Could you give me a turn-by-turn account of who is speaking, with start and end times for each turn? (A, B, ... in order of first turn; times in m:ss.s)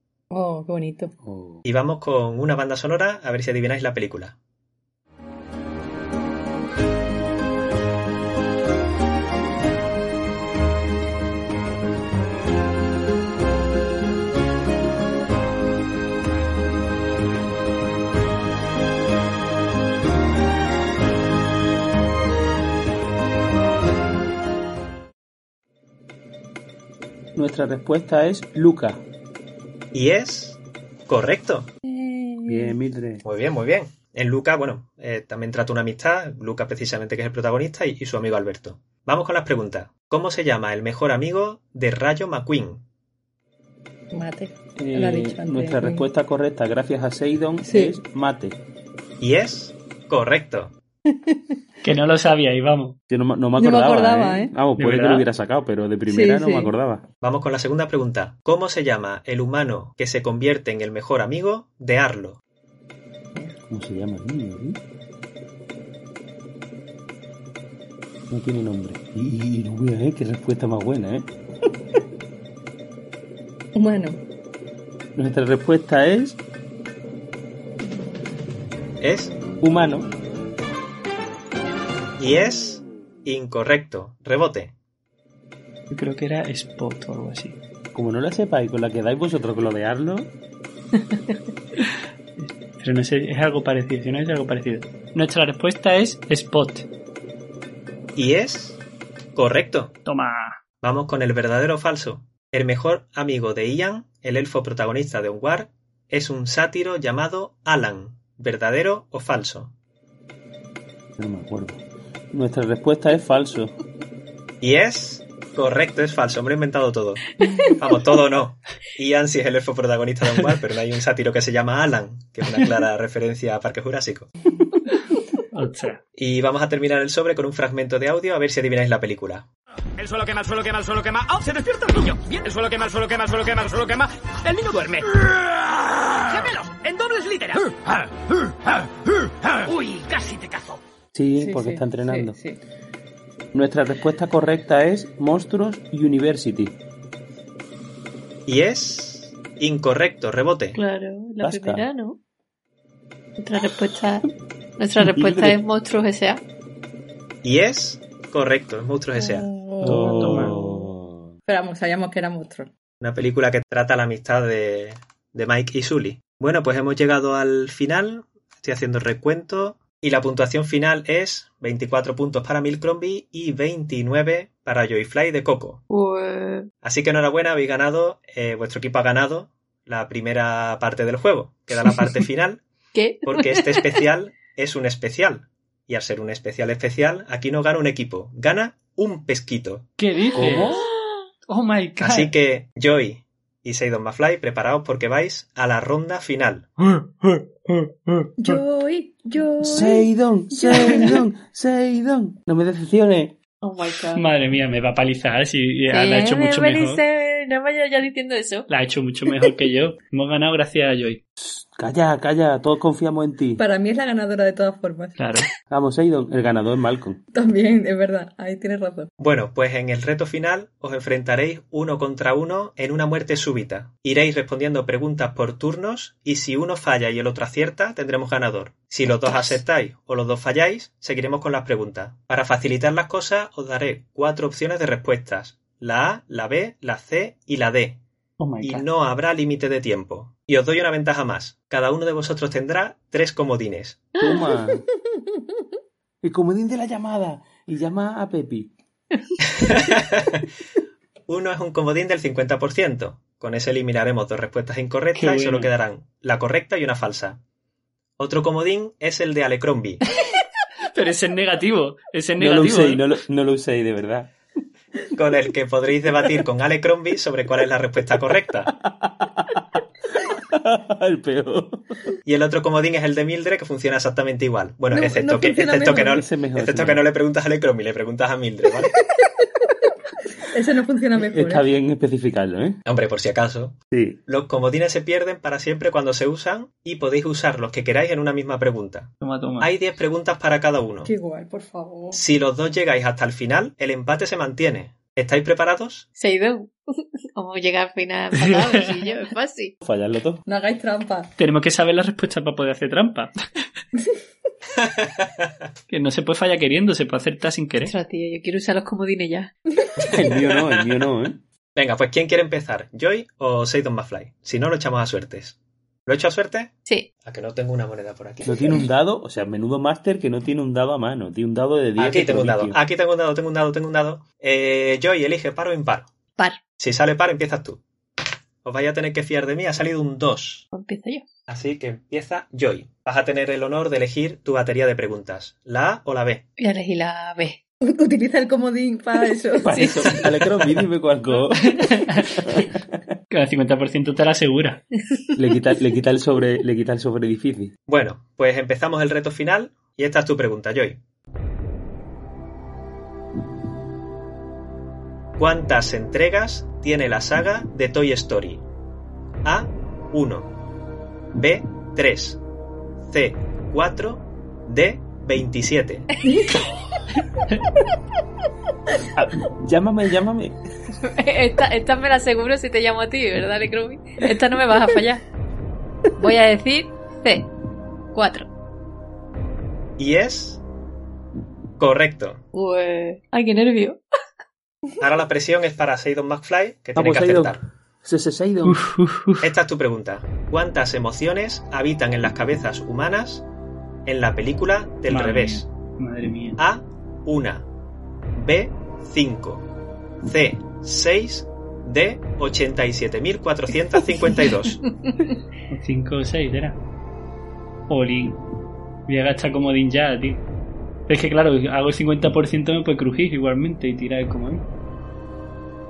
0:00.3-0:01.1 A
0:01.2-0:01.6 B
0:01.6-0:04.3 C
0:27.3-0:29.0 B
0:29.9-0:31.7 C
0:31.9-0:32.8 A
0:32.4-0:33.2 B
0:33.2-0:42.8 C
0:44.1-0:46.1 A
0:44.8-0:48.6 B
0:47.6-0:48.0 A
0:49.2-0:50.7 C
0:51.1-0:51.5 A
0:51.8-0:53.0 D
0:53.1-0:57.0 B
0:53.6-0:54.5 A
0:54.8-0:55.2 D
0:56.0-0:56.7 A
0:57.2-1:02.4 C
1:03.7-1:04.8 B
1:08.3-1:11.3 B
1:13.7-1:14.2 A
1:15.1-1:16.4 B
1:19.0-1:19.3 C
1:19.6-1:20.1 B
1:22.2-1:24.7 C
1:25.9-1:27.6 D
1:27.9-1:30.3 B
1:32.4-1:36.8 D
1:38.2-1:38.8 C
1:39.3-1:39.9 C
1:40.0-1:40.6 D
1:40.8-1:49.7 C
1:51.2-1:53.7 B
1:54.6-1:57.2 C
1:57.8-2:04.3 C
2:05.5-2:06.0 D
2:06.2-2:09.4 C
2:10.0-2:15.2 E
2:16.3-2:17.7 E
2:19.8-2:20.6 E
2:21.1-2:22.4 B
2:21.4-2:22.6 A
2:23.5-2:26.8 B
2:28.5-2:30.8 C
2:30.7-2:32.2 F
2:31.4-2:31.8 B
2:33.4-2:34.2 F
2:34.8-2:36.4 F
2:35.0-2:35.6 B
2:37.4-2:39.5 C
2:39.2-2:40.9 A
2:39.8-2:40.5 D
2:39.8-2:41.3 B
2:41.4-2:42.7 A
2:43.0-2:55.8 C
2:55.9-2:56.7 F
2:56.8-3:02.6 C
3:02.9-3:03.9 F
3:03.2-3:09.9 C
3:10.0-3:10.8 D
3:10.3-3:10.8 B
3:11.5-3:12.3 D
3:12.0-3:16.7 C
3:16.9-3:18.3 D
3:18.4-3:21.2 A
3:19.6-3:23.3 B
3:23.6-3:24.2 F
3:24.1-3:27.0 D
3:25.9-3:28.7 F
3:28.7-3:31.2 D
3:31.4-3:33.6 B
3:33.6-3:35.2 A
3:35.2-3:35.4 D
3:35.7-3:37.2 B
3:37.3-3:39.1 A
3:39.2-3:58.0 C
3:58.4-3:58.8 D
3:58.6-4:04.0 C
4:04.2-4:04.8 B
4:06.2-4:08.7 B
4:09.6-4:10.4 C
4:11.3-4:17.4 C
4:15.1-4:15.7 D
4:18.2-4:20.0 C
4:20.9-4:23.0 D
4:22.4-4:24.3 B
4:25.2-4:28.7 C
4:28.8-4:29.6 B
4:30.2-4:31.8 B
4:32.2-4:38.9 C
4:34.9-4:36.2 A
4:35.9-4:37.0 B
4:40.5-4:41.6 A
4:41.2-4:42.8 B
4:42.8-4:43.8 C
4:43.9-4:44.2 B
4:44.3-4:51.1 C
4:49.2-4:49.7 D
4:51.0-4:52.2 A
4:52.1-4:56.0 C
4:56.2-4:59.7 F
4:58.3-4:59.0 D
4:59.8-5:00.4 B
5:00.4-5:01.3 A
5:01.4-5:03.3 D
5:04.9-5:05.2 C
5:05.9-5:07.9 D
5:07.8-5:09.5 F
5:10.0-5:10.7 C
5:10.1-5:11.4 B
5:11.7-5:15.5 C
5:16.0-5:16.7 C
5:17.2-5:18.8 C
5:18.4-5:22.8 B
5:22.0-5:26.1 C
5:26.8-5:27.8 C
5:28.6-5:30.6 C
5:30.7-5:31.2 F
5:31.5-5:36.4 C
5:36.6-5:37.6 F
5:37.8-5:39.7 A
5:39.6-5:42.7 B
5:39.7-5:40.2 F
5:41.7-5:42.6 D
5:43.3-5:44.8 D
5:45.4-5:47.7 B
5:47.9-5:51.0 C
5:55.4-5:58.6 C
5:59.4-6:00.5 C
6:01.3-6:02.4 C
6:03.1-6:06.1 C
6:09.1-6:10.5 B
6:11.0-6:15.2 F
6:16.2-6:17.5 F
6:18.1-6:18.5 F
6:20.0-6:20.6 C
6:21.8-6:22.4 C
6:22.5-6:24.0 F
6:25.0-6:27.6 C
6:26.9-6:28.8 B
6:28.6-6:29.4 D
6:29.4-6:33.4 C
6:34.0-6:35.7 C
6:35.1-6:36.6 D
6:36.6-6:37.6 C
6:38.3-6:39.6 C
6:40.2-6:44.8 C
6:45.7-6:46.8 D
6:47.9-6:48.4 D
6:49.1-6:50.4 D
6:51.1-6:54.6 D